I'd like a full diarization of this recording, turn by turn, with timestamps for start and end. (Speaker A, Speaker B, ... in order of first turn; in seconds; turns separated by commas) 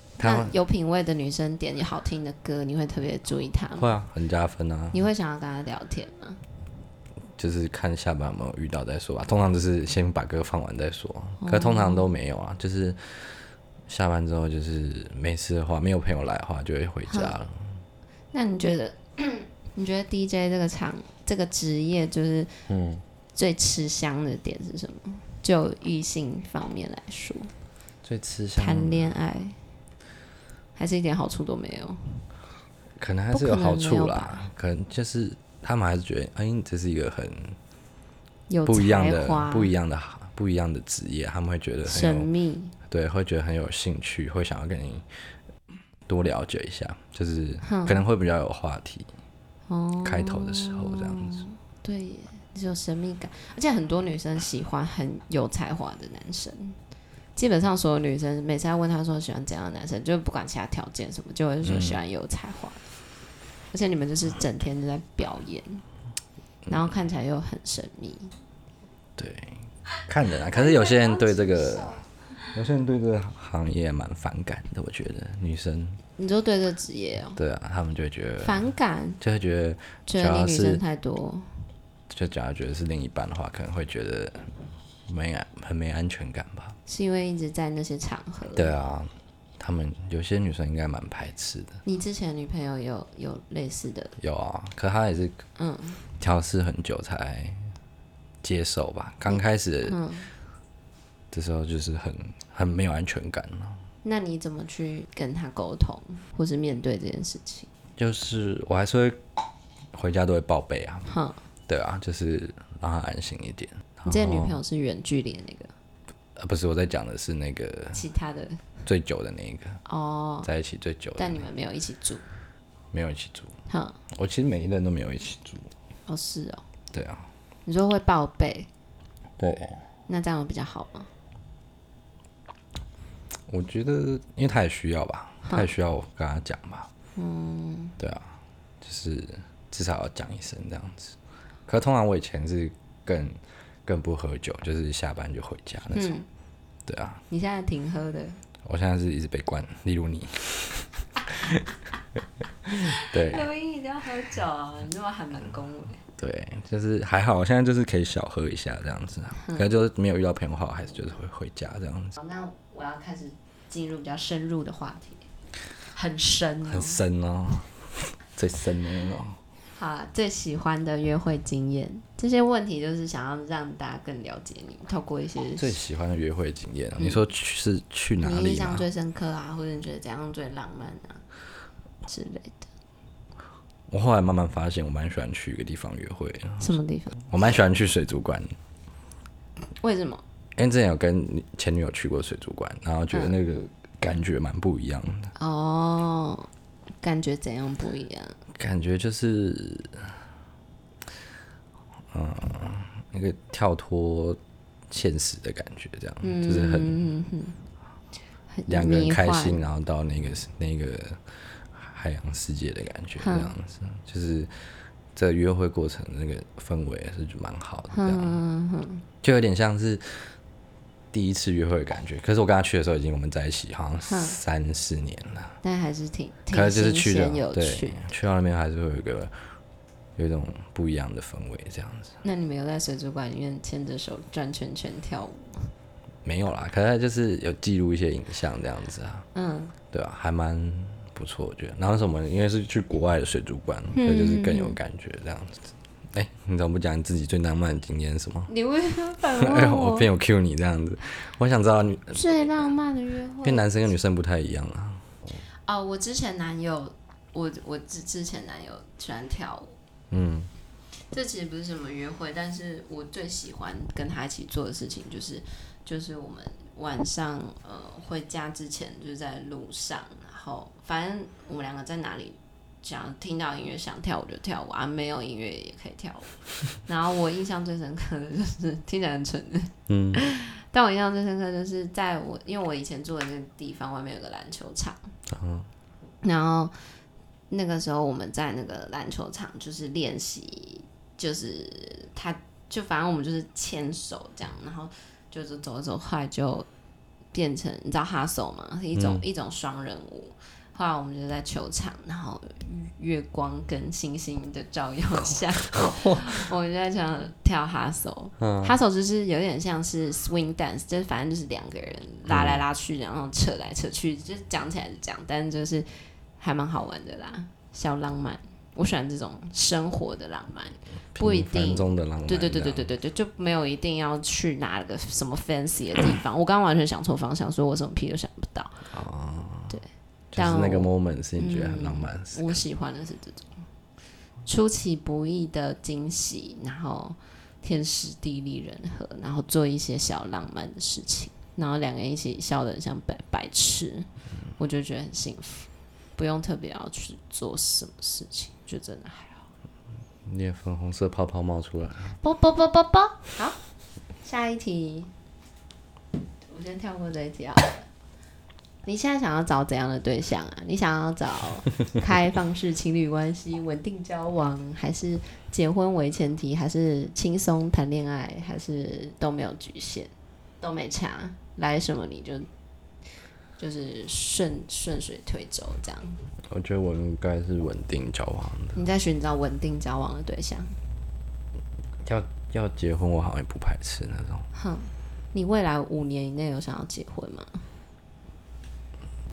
Speaker A: 0.2-0.5, Speaker B: 0.2-3.9, Speaker A: 3.8-5.0, Speaker B: 4.9-6.4, Speaker A: 7.3-17.8, Speaker B: 11.4-12.1, Speaker B: 17.1-17.3, Speaker B: 18.3-22.6, Speaker A: 22.7-23.0, Speaker B: 23.3-27.5, Speaker A: 28.0-29.1, Speaker B: 28.6-29.6, Speaker B: 30.8-32.2, Speaker A: 33.0-37.6, Speaker B: 33.3-34.5, Speaker B: 38.5-39.7, Speaker A: 38.6-42.3, Speaker B: 41.9-42.7, Speaker A: 42.9-45.0, Speaker A: 46.1-49.1, Speaker B: 47.6-48.0, Speaker B: 49.7-56.8, Speaker A: 50.0-51.4, Speaker B: 57.4-62.8, Speaker A: 61.6-62.0, Speaker B: 63.7-65.8, Speaker B: 66.7-68.3, Speaker A: 69.2-76.0, Speaker B: 76.2-77.4, Speaker A: 77.3-78.6, Speaker B: 78.4-79.2, Speaker A: 79.2-80.8, Speaker B: 80.1-81.5, Speaker A: 82.1-84.5, Speaker A: 85.1-86.8, Speaker B: 86.9-88.7, Speaker A: 88.5-91.8, Speaker B: 91.8-94.1, Speaker A: 94.2-95.4, Speaker B: 95.6-96.0, Speaker A: 96.2-97.6, Speaker A: 98.4-100.0, Speaker B: 99.3-100.3, Speaker A: 101.3-103.8, Speaker B: 104.0-107.7, Speaker A: 108.0-109.2, Speaker A: 109.9-111.1, Speaker B: 111.1-111.4, Speaker A: 111.7-114.6, Speaker B: 114.0-115.7, Speaker A: 116.3-118.0, Speaker B: 117.9-118.6, Speaker A: 118.8-119.8, Speaker B: 119.8-120.5, Speaker A: 120.4-121.4, Speaker B: 121.2-122.2, Speaker A: 122.9-123.5, Speaker B: 123.7-124.0, Speaker A: 124.1-125.7, Speaker B: 126.1-126.6, Speaker A: 126.9-127.3, Speaker B: 127.7-128.7, Speaker A: 129.4-129.8, Speaker B: 130.1-131.1, Speaker A: 133.5-136.9, Speaker B: 137.2-138.0, Speaker A: 138.0-141.2, Speaker A: 141.7-146.2, Speaker B: 145.9-146.3, Speaker A: 146.8-147.2, Speaker B: 147.3-148.4, Speaker A: 148.6-151.7, Speaker A: 152.6-153.5, Speaker B: 152.7-156.0, Speaker A: 156.2-162.1, Speaker B: 162.2-165.2, Speaker B: 165.9-167.0, Speaker A: 166.7-169.4, Speaker B: 169.8-175.7, Speaker A: 175.6-178.8, Speaker B: 178.2-181.2, Speaker B: 182.0-182.6, Speaker A: 183.9-188.5, Speaker B: 186.6-187.2, Speaker B: 189.8-190.2, Speaker A: 190.6-195.3, Speaker B: 193.1-193.3, Speaker B: 195.3-196.5, Speaker B: 197.0-198.4, Speaker A: 198.5-200.1, Speaker A: 202.1-206.9, Speaker B: 206.2-207.6, Speaker B: 208.5-209.6, Speaker A: 208.7-214.5, Speaker B: 213.2-213.5, Speaker A: 215.1-218.3, Speaker B: 217.9-219.0, Speaker A: 219.2-220.3, Speaker A: 221.1-225.6, Speaker B: 224.0-224.4, Speaker B: 225.6-228.0, Speaker A: 226.5-229.3, Speaker A: 230.2-232.2, Speaker B: 232.2-235.7, Speaker A: 236.2-239.2, Speaker B: 239.3-239.7, Speaker A: 239.9-248.5, Speaker B: 243.9-244.8, Speaker B: 248.5-250.1, Speaker A: 249.3-252.4, Speaker B: 252.1-253.7, Speaker A: 253.4-255.1, Speaker B: 255.7-259.7, Speaker A: 260.1-260.5, Speaker B: 261.0-285.0, Speaker A: 279.9-280.2, Speaker A: 285.3-285.7, Speaker B: 286.2-286.7, Speaker B: 287.5-296.7, Speaker B: 297.3-328.8, Speaker A: 298.9-299.2, Speaker A: 305.7-306.4, Speaker A: 308.4-308.8, Speaker A: 312.3-312.6, Speaker A: 321.1-322.9, Speaker A: 328.9-329.8, Speaker B: 329.7-333.6, Speaker A: 330.3-332.6, Speaker B: 334.4-349.4, Speaker A: 350.2-352.2, Speaker B: 352.2-353.6, Speaker B: 354.2-355.1, Speaker B: 356.4-357.9, Speaker B: 358.9-370.1, Speaker B: 370.6-372.5, Speaker B: 373.6-376.2, Speaker A: 376.5-378.8, Speaker B: 378.7-380.8, Speaker A: 382.0-384.5, Speaker B: 384.5-387.6